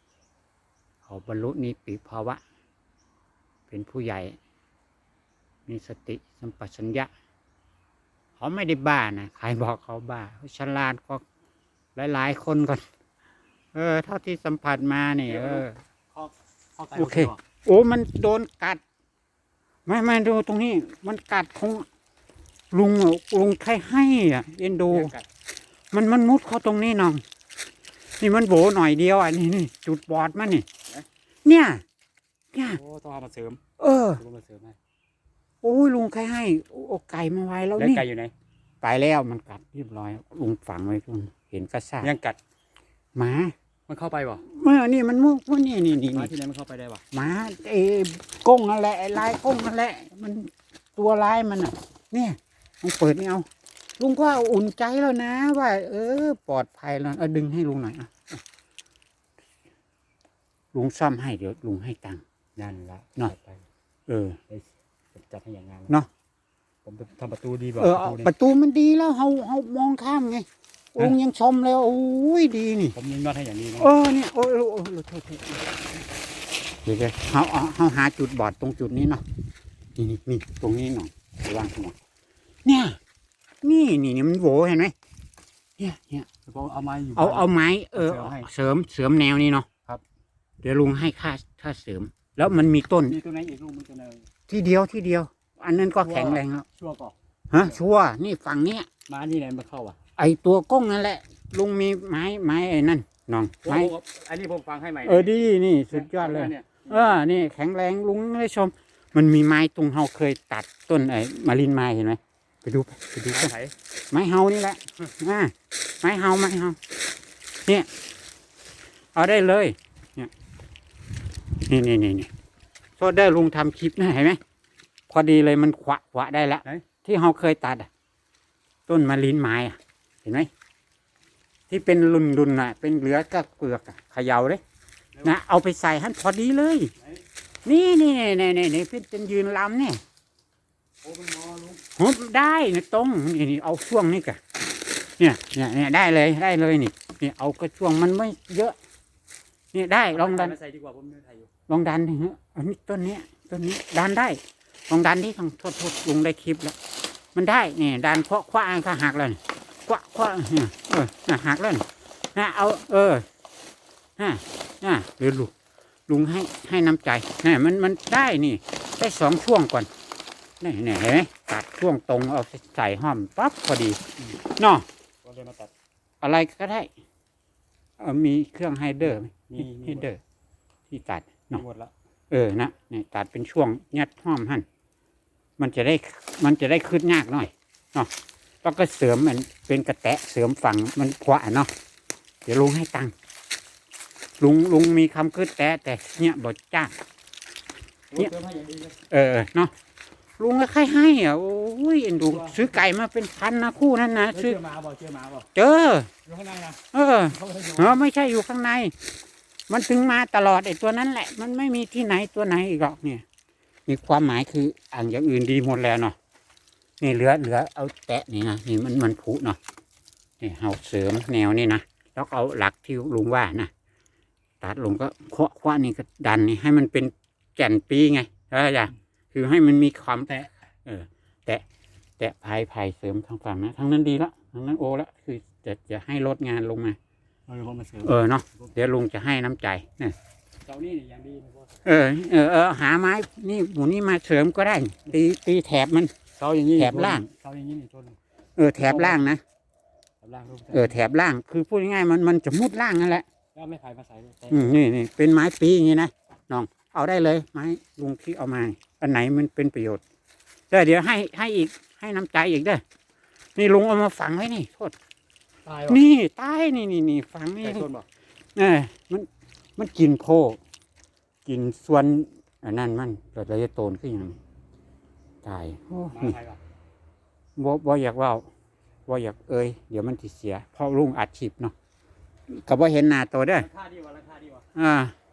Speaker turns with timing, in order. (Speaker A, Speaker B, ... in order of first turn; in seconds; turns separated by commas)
Speaker A: 1.1-2.4, Speaker A: 3.7-4.4, Speaker A: 5.7-7.1, Speaker A: 8.4-11.2, Speaker A: 12.0-12.8, Speaker A: 13.7-15.8, Speaker B: 15.3-17.4, Speaker A: 16.9-18.8, Speaker A: 19.9-21.9, Speaker A: 22.7-25.1, Speaker B: 24.9-25.2, Speaker A: 25.9-27.2, Speaker A: 28.2-30.7, Speaker A: 31.4-31.8, Speaker A: 32.5-32.8, Speaker B: 32.7-33.6, Speaker A: 33.8-34.2, Speaker B: 34.2-34.8, Speaker A: 35.6-38.0, Speaker B: 37.8-38.3, Speaker A: 38.8-42.1, Speaker B: 42.0-42.4, Speaker A: 43.1-43.5, Speaker B: 43.9-44.5, Speaker A: 44.4-46.3, Speaker B: 46.1-47.0, Speaker A: 47.1-53.5, Speaker A: 54.0-58.4, Speaker A: 60.7-62.2, Speaker B: 62.6-63.6, Speaker A: 64.1-64.4, Speaker B: 64.5-65.9, Speaker B: 66.8-68.3, Speaker A: 67.8-73.0, Speaker B: 73.0-73.9, Speaker A: 73.8-75.7, Speaker A: 76.8-79.2, Speaker A: 80.0-82.0, Speaker A: 82.7-83.0, Speaker A: 83.6-85.0, Speaker A: 85.8-86.3, Speaker B: 86.5-88.5, Speaker A: 87.2-89.7, Speaker A: 90.6-93.2, Speaker B: 93.1-94.3, Speaker A: 94.5-96.7, Speaker B: 96.0-97.7, Speaker A: 97.5-98.9, Speaker B: 99.1-100.0, Speaker A: 100.2-103.9, Speaker B: 103.6-105.3, Speaker A: 105.0-113.5, Speaker B: 105.9-107.1, Speaker B: 113.3-113.7, Speaker A: 114.1-116.8, Speaker A: 119.2-120.3, Speaker A: 121.6-122.3, Speaker A: 123.0-124.4, Speaker A: 125.1-127.9, Speaker A: 128.9-130.5, Speaker A: 131.7-134.6, Speaker A: 135.2-136.9, Speaker A: 137.7-140.0, Speaker B: 141.0-141.8, Speaker A: 141.9-144.4, Speaker A: 145.2-148.8, Speaker A: 149.7-150.6, Speaker B: 150.1-151.5, Speaker A: 151.7-156.8, Speaker A: 157.3-163.2, Speaker A: 164.2-165.5, Speaker A: 166.1-169.9, Speaker A: 170.6-174.9, Speaker B: 175.2-175.7, Speaker A: 176.2-176.9, Speaker A: 178.0-180.2, Speaker B: 179.5-180.1, Speaker A: 180.9-181.6, Speaker B: 181.5-181.9, Speaker A: 182.3-184.7, Speaker A: 185.6-188.1, Speaker A: 188.6-191.7, Speaker A: 192.4-193.1, Speaker A: 194.4-196.9, Speaker B: 198.1-199.0, Speaker A: 199.1-199.7, Speaker A: 200.4-204.6, Speaker B: 202.2-202.7, Speaker B: 204.3-205.5, Speaker A: 205.6-206.1, Speaker B: 206.3-208.0, Speaker A: 206.9-208.9, Speaker A: 209.7-213.2, Speaker A: 213.9-216.2, Speaker A: 217.0-219.6, Speaker A: 220.4-223.7, Speaker A: 224.6-231.6, Speaker A: 232.2-237.0, Speaker B: 237.5-238.1, Speaker A: 238.0-240.2, Speaker B: 240.7-241.7, Speaker A: 241.8-246.1, Speaker B: 246.4-248.2, Speaker A: 246.8-247.3, Speaker A: 248.6-249.4, Speaker B: 248.8-249.2, Speaker B: 250.2-251.0, Speaker A: 250.7-253.3, Speaker B: 253.6-254.8, Speaker A: 254.5-260.0, Speaker A: 260.7-262.8, Speaker A: 263.6-264.9, Speaker B: 265.7-266.0, Speaker A: 265.9-267.9, Speaker B: 267.6-268.1, Speaker A: 268.6-270.6, Speaker A: 271.4-274.4, Speaker A: 275.4-276.4, Speaker B: 276.1-276.6, Speaker A: 277.6-278.5, Speaker A: 279.1-281.8, Speaker A: 282.5-283.7, Speaker B: 283.6-284.6, Speaker A: 284.8-285.1